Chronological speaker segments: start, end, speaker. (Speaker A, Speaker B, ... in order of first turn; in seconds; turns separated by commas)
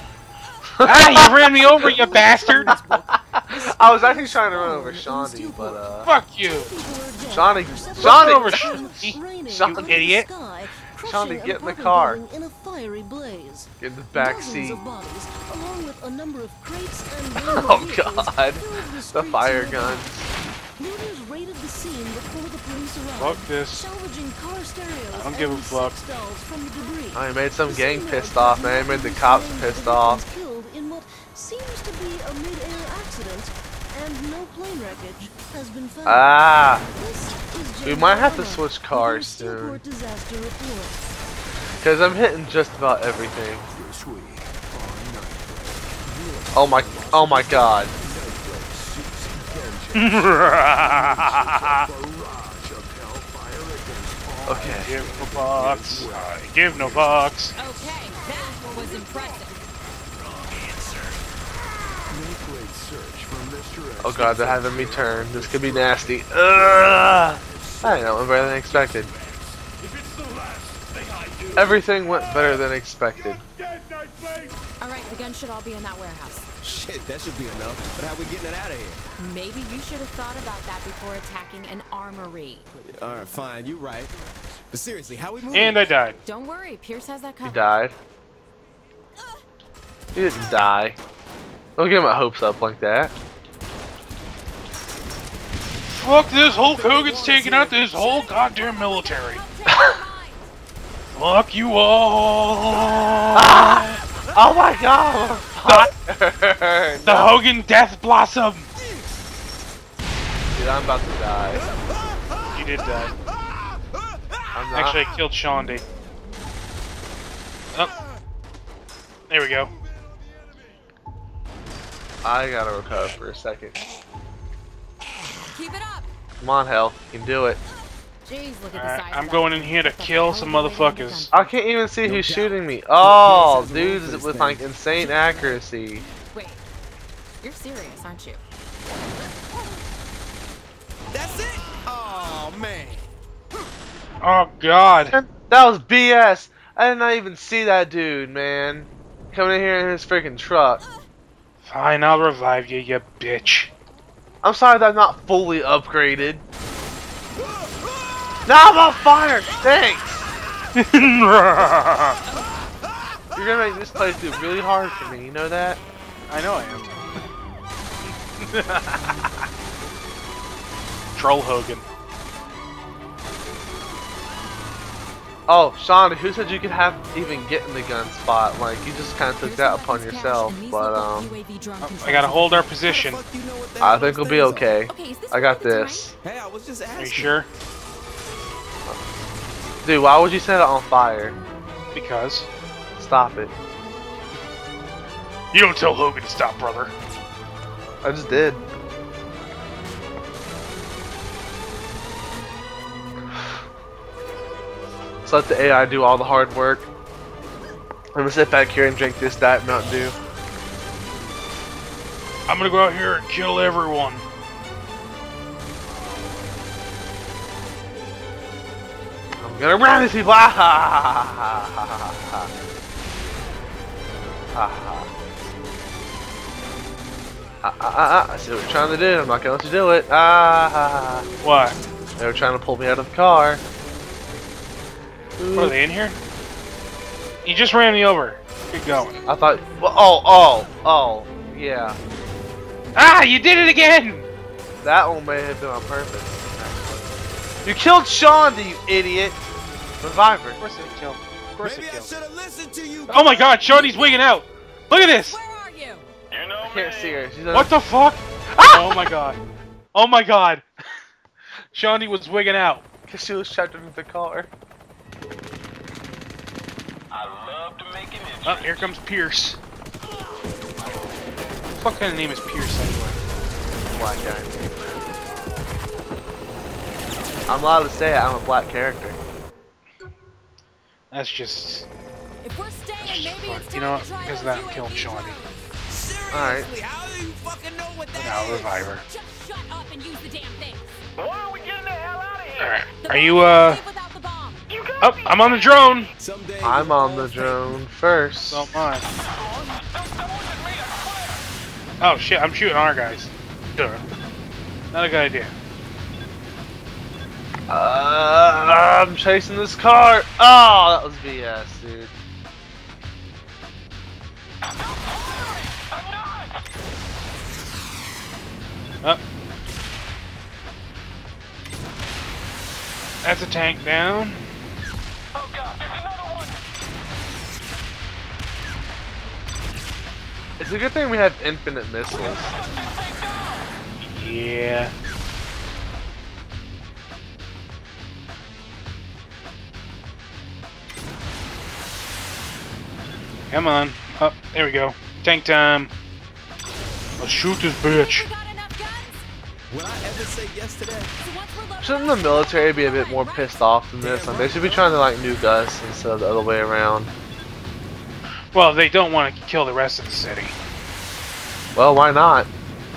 Speaker A: 0.8-1.9, Speaker B: 0.8-2.7, Speaker C: 1.7-5.8, Speaker A: 2.6-6.1, Speaker B: 6.0-6.7, Speaker C: 6.4-20.2, Speaker A: 7.3-8.8, Speaker B: 8.0-10.3, Speaker A: 9.5-10.0, Speaker A: 11.0-12.2, Speaker A: 13.8-14.8, Speaker A: 17.4-20.3, Speaker C: 20.8-36.4, Speaker B: 23.2-23.9, Speaker B: 25.1-26.0, Speaker A: 27.1-30.2, Speaker A: 36.0-36.8, Speaker C: 36.9-41.1, Speaker A: 37.8-39.8, Speaker A: 41.8-43.7, Speaker D: 43.7-57.2, Speaker A: 46.5-47.9, Speaker B: 50.0-51.9, Speaker B: 54.4-57.6, Speaker A: 54.5-54.9, Speaker E: 57.6-59.6, Speaker D: 58.5-59.0, Speaker D: 60.3-61.1, Speaker D: 62.0-72.5, Speaker A: 64.0-69.1, Speaker A: 71.5-73.4, Speaker D: 73.7-74.6, Speaker E: 74.8-76.5, Speaker D: 76.6-79.0, Speaker E: 79.2-82.7, Speaker D: 82.8-84.2, Speaker D: 84.7-85.8, Speaker B: 85.5-86.2, Speaker E: 86.2-87.7, Speaker A: 87.4-88.0, Speaker A: 90.2-91.0, Speaker A: 91.8-93.1, Speaker B: 95.9-99.4, Speaker D: 96.5-97.9, Speaker E: 97.9-100.5, Speaker A: 99.7-100.0, Speaker B: 101.1-104.0, Speaker A: 103.3-107.4, Speaker B: 105.7-105.9, Speaker B: 107.0-108.7, Speaker A: 110.5-111.6, Speaker D: 111.6-112.4, Speaker B: 112.5-113.2, Speaker A: 114.5-115.0, Speaker B: 114.7-115.8, Speaker B: 119.3-119.7, Speaker A: 122.2-123.8, Speaker E: 125.5-126.1, Speaker A: 126.4-127.6, Speaker E: 128.2-131.6, Speaker B: 128.8-131.3, Speaker A: 131.3-136.1, Speaker D: 132.0-135.1, Speaker E: 136.2-136.6, Speaker E: 137.4-138.4, Speaker D: 141.1-143.1, Speaker B: 144.2-145.2, Speaker A: 145.1-150.8, Speaker B: 151.6-153.7, Speaker A: 154.4-156.4, Speaker D: 157.4-158.3, Speaker A: 158.5-160.3, Speaker B: 160.8-162.2, Speaker A: 163.3-165.8, Speaker B: 166.3-166.9, Speaker B: 168.4-169.4, Speaker B: 171.2-171.8, Speaker A: 175.5-181.3, Speaker E: 179.4-182.7, Speaker B: 181.8-183.2, Speaker D: 182.8-184.8, Speaker A: 183.8-186.1, Speaker E: 184.9-186.1, Speaker D: 186.2-187.3, Speaker B: 186.9-187.5, Speaker A: 189.8-191.4, Speaker B: 191.9-192.5, Speaker A: 193.0-193.5, Speaker B: 195.5-196.9, Speaker A: 198.0-198.6, Speaker A: 205.2-206.9, Speaker A: 208.2-210.2, Speaker B: 212.5-214.2, Speaker A: 219.4-222.5, Speaker A: 224.6-225.1, Speaker A: 227.6-231.3, Speaker B: 231.4-231.8, Speaker A: 232.2-233.6, Speaker A: 235.4-235.8, Speaker B: 235.6-236.2, Speaker B: 237.4-239.2, Speaker A: 239.3-242.0, Speaker B: 242.9-244.3, Speaker A: 244.8-247.1, Speaker A: 247.6-249.5, Speaker A: 250.0-250.6, Speaker B: 250.6-252.1, Speaker D: 251.6-253.6, Speaker B: 253.1-255.4, Speaker E: 253.7-254.3, Speaker E: 255.0-256.1, Speaker F: 256.4-257.1, Speaker A: 256.6-257.7, Speaker B: 257.5-259.4, Speaker A: 258.6-259.0, Speaker B: 259.9-260.7, Speaker B: 261.7-262.8, Speaker A: 263.1-264.5, Speaker F: 267.2-268.4, Speaker B: 268.4-269.6, Speaker B: 271.7-273.2, Speaker A: 273.9-274.6, Speaker A: 277.5-279.2, Speaker B: 281.1-281.9, Speaker E: 282.4-285.8, Speaker B: 283.0-285.4, Speaker D: 285.9-288.9, Speaker A: 286.3-286.7, Speaker B: 288.2-289.0, Speaker E: 289.0-291.0, Speaker F: 291.2-292.6, Speaker B: 292.6-293.8, Speaker E: 292.9-294.7, Speaker F: 294.8-295.4, Speaker B: 295.0-296.1, Speaker D: 296.2-297.8, Speaker A: 296.6-298.7, Speaker B: 298.5-299.1, Speaker F: 299.6-301.4, Speaker B: 302.0-304.0, Speaker B: 304.9-305.5, Speaker A: 307.7-312.1, Speaker B: 323.2-324.4, Speaker F: 325.9-326.3, Speaker A: 330.6-332.6, Speaker B: 334.0-334.9, Speaker B: 343.5-345.9, Speaker B: 347.2-348.3, Speaker E: 347.9-349.2, Speaker D: 349.7-351.1, Speaker E: 351.2-353.8, Speaker A: 351.8-357.1, Speaker D: 354.0-354.9, Speaker E: 354.4-355.1, Speaker B: 358.5-360.6, Speaker A: 361.8-362.5